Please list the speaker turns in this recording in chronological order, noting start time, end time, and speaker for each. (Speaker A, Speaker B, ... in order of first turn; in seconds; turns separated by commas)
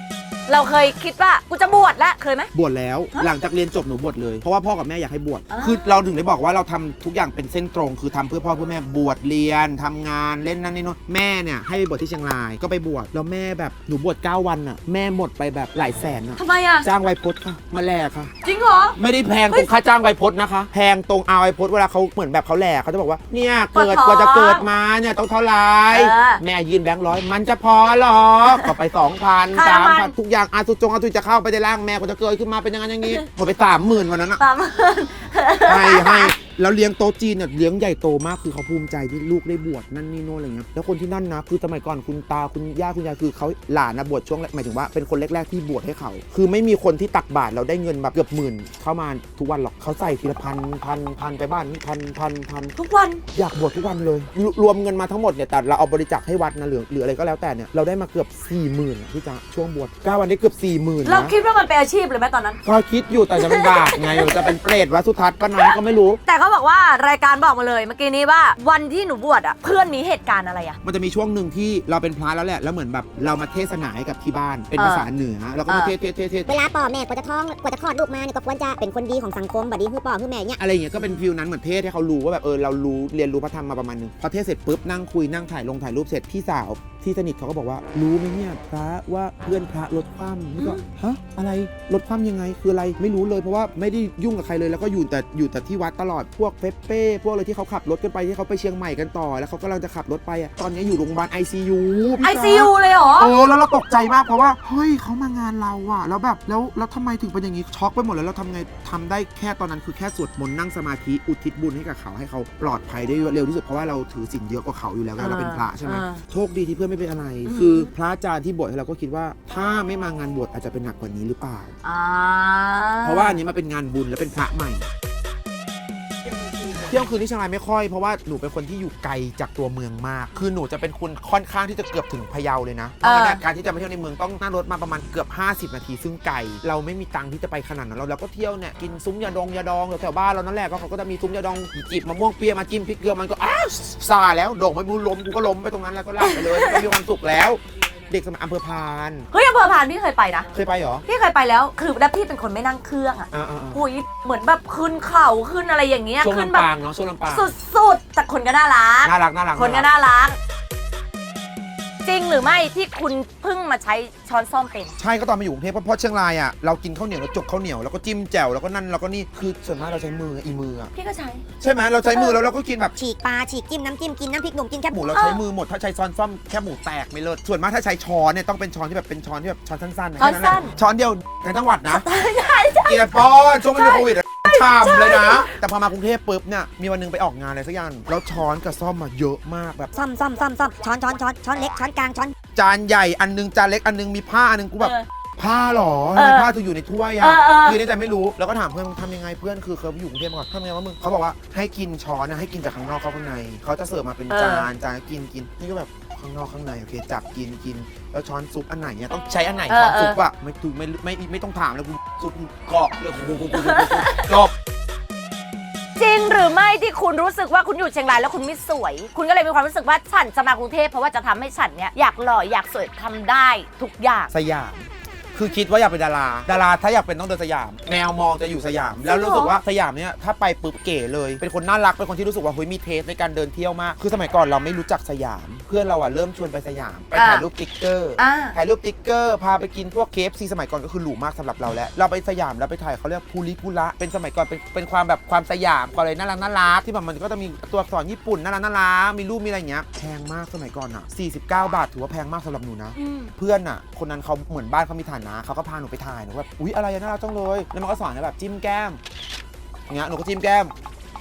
Speaker A: 0.5-2.5, Speaker B: 2.5-18.3, Speaker A: 5.5-6.0, Speaker A: 16.4-16.9, Speaker A: 18.4-19.0, Speaker B: 19.0-34.4, Speaker A: 23.7-24.7, Speaker A: 25.9-26.4, Speaker A: 29.5-30.1, Speaker A: 34.4-36.3, Speaker B: 35.6-52.8, Speaker A: 52.8-53.2, Speaker B: 53.3-61.3, Speaker A: 61.0-62.6, Speaker B: 62.6-66.2, Speaker A: 63.3-64.6, Speaker A: 65.6-70.8, Speaker B: 70.8-76.6, Speaker A: 74.8-75.1, Speaker A: 75.7-75.9, Speaker C: 76.5-80.6, Speaker B: 80.5-121.7, Speaker A: 90.6-90.8, Speaker A: 102.2-103.3, Speaker A: 115.2-116.2, Speaker A: 117.5-117.9, Speaker A: 121.8-123.4, Speaker B: 123.0-124.9, Speaker B: 126.7-149.3, Speaker A: 133.0-133.4, Speaker A: 146.2-146.9, Speaker A: 149.3-150.5, Speaker B: 150.5-151.0, Speaker A: 151.1-156.7, Speaker B: 153.3-153.8, Speaker B: 156.2-157.5, Speaker A: 157.3-160.4, Speaker B: 159.0-159.9, Speaker A: 162.1-164.9, Speaker B: 165.0-170.9, Speaker A: 170.9-171.4, Speaker B: 171.6-173.0, Speaker C: 173.0-175.0, Speaker B: 174.9-182.1, Speaker A: 175.1-175.4, Speaker A: 180.2-180.8, Speaker A: 181.9-185.5, Speaker B: 182.8-189.9, Speaker C: 190.0-192.3, Speaker B: 192.5-214.5, Speaker A: 194.8-195.1, Speaker A: 196.2-196.5, Speaker A: 197.2-197.8, Speaker A: 204.3-204.7, Speaker A: 209.7-210.2, Speaker A: 213.5-214.3, Speaker A: 216.0-224.3, Speaker B: 224.3-259.0, Speaker A: 229.0-229.6, Speaker A: 237.1-237.5, Speaker A: 238.2-238.6, Speaker A: 253.0-253.3, Speaker B: 259.9-260.7